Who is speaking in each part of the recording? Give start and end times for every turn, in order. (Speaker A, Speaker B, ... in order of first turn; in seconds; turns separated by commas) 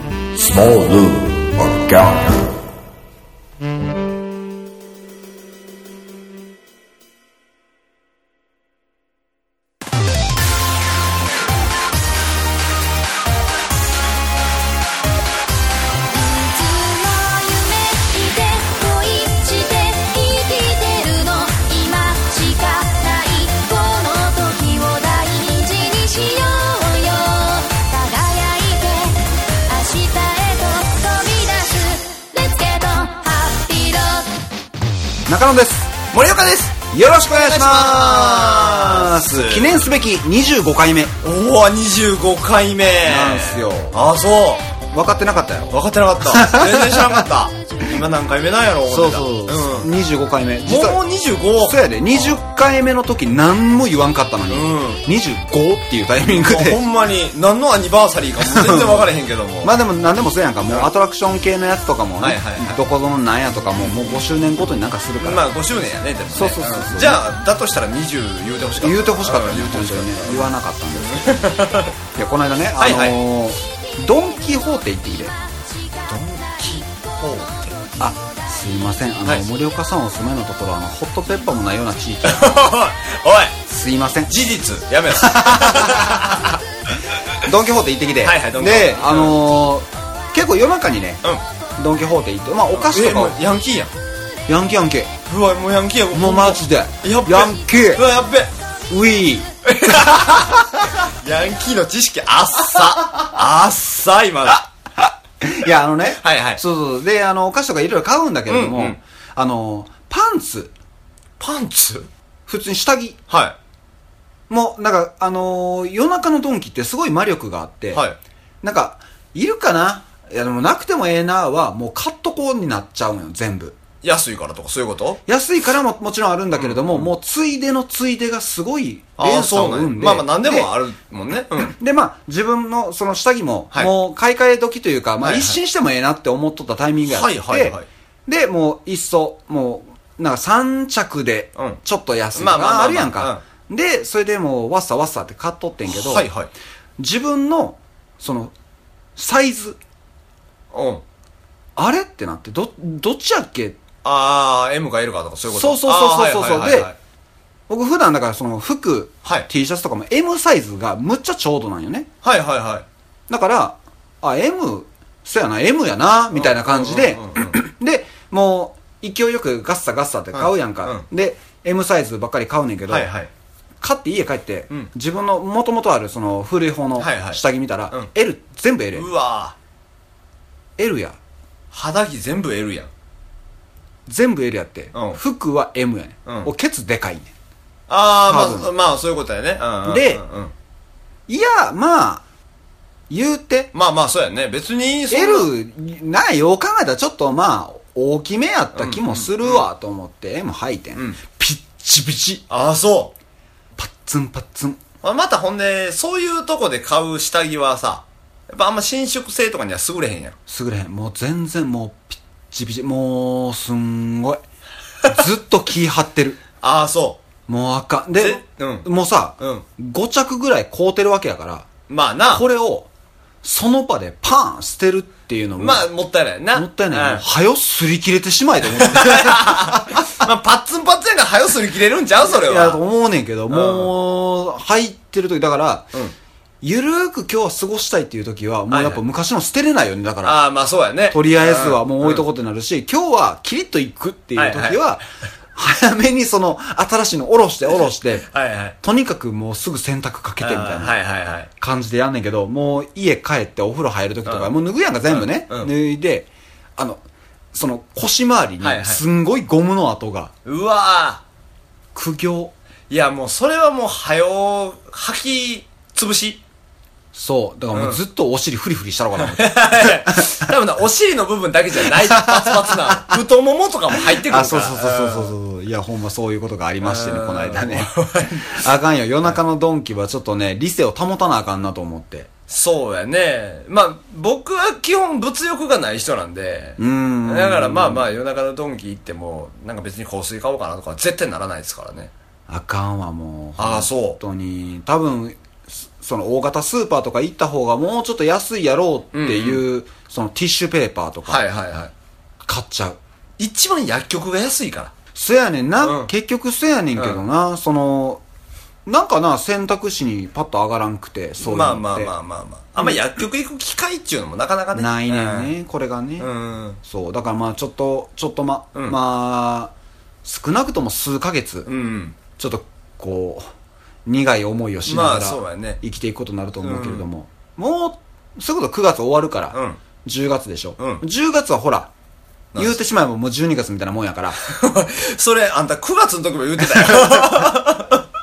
Speaker A: 0.4-2.4, Speaker B: 16.1-34.3, Speaker C: 35.3-35.9, Speaker D: 36.1-39.7, Speaker C: 36.9-41.1, Speaker D: 41.2-44.6, Speaker C: 43.0-44.0, Speaker C: 44.9-47.2, Speaker D: 45.7-49.9, Speaker C: 48.9-51.0, Speaker D: 50.6-52.4, Speaker C: 51.6-56.8, Speaker D: 54.5-55.0, Speaker D: 56.4-59.8, Speaker C: 58.4-65.5, Speaker D: 62.2-62.8, Speaker D: 63.8-64.2, Speaker D: 65.2-71.9, Speaker C: 66.3-67.2, Speaker C: 68.8-75.3, Speaker D: 72.8-73.2, Speaker D: 76.1-77.8, Speaker B: 76.3-76.9, Speaker C: 78.0-82.6, Speaker D: 82.2-83.5, Speaker C: 83.7-84.3, Speaker D: 84.3-86.6, Speaker C: 85.1-86.4, Speaker C: 87.4-91.2, Speaker D: 88.2-89.4, Speaker C: 91.8-93.4, Speaker D: 92.7-93.9, Speaker C: 94.5-95.1, Speaker D: 95.2-98.5, Speaker C: 96.1-98.0, Speaker C: 98.9-99.5, Speaker D: 99.7-104.7, Speaker C: 105.4-110.7, Speaker D: 106.2-106.6, Speaker D: 108.5-109.0, Speaker D: 111.4-112.1, Speaker C: 112.5-113.2, Speaker D: 113.3-113.5, Speaker C: 114.5-118.0, Speaker D: 117.9-118.2, Speaker C: 118.6-123.8, Speaker D: 124.0-125.2, Speaker C: 125.3-130.7, Speaker D: 126.5-127.1, Speaker D: 129.2-131.7, Speaker C: 131.5-146.3, Speaker D: 135.2-135.6, Speaker D: 137.0-137.9, Speaker D: 142.3-143.4, Speaker D: 145.9-146.5, Speaker C: 147.0-148.5, Speaker C: 149.2-149.8, Speaker D: 150.7-151.0, Speaker C: 151.8-153.8, Speaker D: 154.0-156.9, Speaker C: 155.5-156.9, Speaker C: 157.7-162.1, Speaker D: 162.2-162.8, Speaker C: 163.3-173.1, Speaker D: 166.3-167.5, Speaker D: 170.3-171.0, Speaker D: 172.9-173.3, Speaker C: 173.8-179.1, Speaker D: 177.0-178.1, Speaker D: 178.9-179.6, Speaker C: 180.8-181.2, Speaker D: 181.7-182.9, Speaker C: 184.1-187.3, Speaker D: 184.9-185.2, Speaker D: 187.9-190.5, Speaker C: 188.3-188.7, Speaker C: 189.8-190.2, Speaker C: 191.3-192.2, Speaker C: 193.1-193.7, Speaker D: 193.7-195.5, Speaker C: 195.1-202.4, Speaker D: 198.8-199.7, Speaker D: 202.5-203.1, Speaker C: 203.8-204.8, Speaker D: 205.0-210.4, Speaker C: 210.5-214.4, Speaker C: 215.1-216.4, Speaker D: 216.6-217.2, Speaker C: 217.5-221.7, Speaker D: 218.2-218.9, Speaker D: 219.4-219.7, Speaker D: 221.9-222.4, Speaker C: 222.3-222.9, Speaker C: 223.4-225.9, Speaker D: 225.6-227.2, Speaker C: 226.5-230.0, Speaker D: 228.7-232.8, Speaker C: 232.2-235.9, Speaker D: 233.5-233.9, Speaker C: 236.6-240.4, Speaker D: 238.7-239.0, Speaker D: 240.2-242.2, Speaker C: 241.1-245.0, Speaker D: 244.3-244.8, Speaker C: 245.5-248.3, Speaker D: 248.3-248.8, Speaker C: 248.8-251.0, Speaker D: 250.4-251.5, Speaker C: 251.6-257.0, Speaker D: 255.1-255.7, Speaker C: 257.5-260.3, Speaker D: 258.6-259.0, Speaker D: 260.4-261.2, Speaker C: 261.9-262.5, Speaker D: 262.9-266.4, Speaker C: 267.1-270.3, Speaker D: 267.7-268.0, Speaker D: 269.2-275.3, Speaker C: 272.0-273.2, Speaker C: 273.9-282.3, Speaker D: 276.8-278.7, Speaker D: 282.5-292.1, Speaker C: 286.8-288.1, Speaker C: 292.5-301.4, Speaker D: 293.6-294.2, Speaker D: 299.1-299.6, Speaker D: 301.3-301.9, Speaker C: 302.4-303.0, Speaker D: 303.4-304.9, Speaker C: 305.1-308.2, Speaker D: 305.8-306.1, Speaker D: 306.9-307.2, Speaker C: 308.9-312.1, Speaker D: 311.4-315.5, Speaker C: 314.7-316.3, Speaker D: 316.2-316.8, Speaker C: 316.8-319.7, Speaker C: 320.2-321.7, Speaker D: 321.6-322.2, Speaker C: 322.4-323.4, Speaker C: 324.1-331.9, Speaker D: 324.8-325.8, Speaker D: 326.6-327.0, Speaker D: 329.5-329.8, Speaker D: 330.8-331.0, Speaker C: 332.6-334.4, Speaker D: 334.4-338.0, Speaker C: 336.8-337.5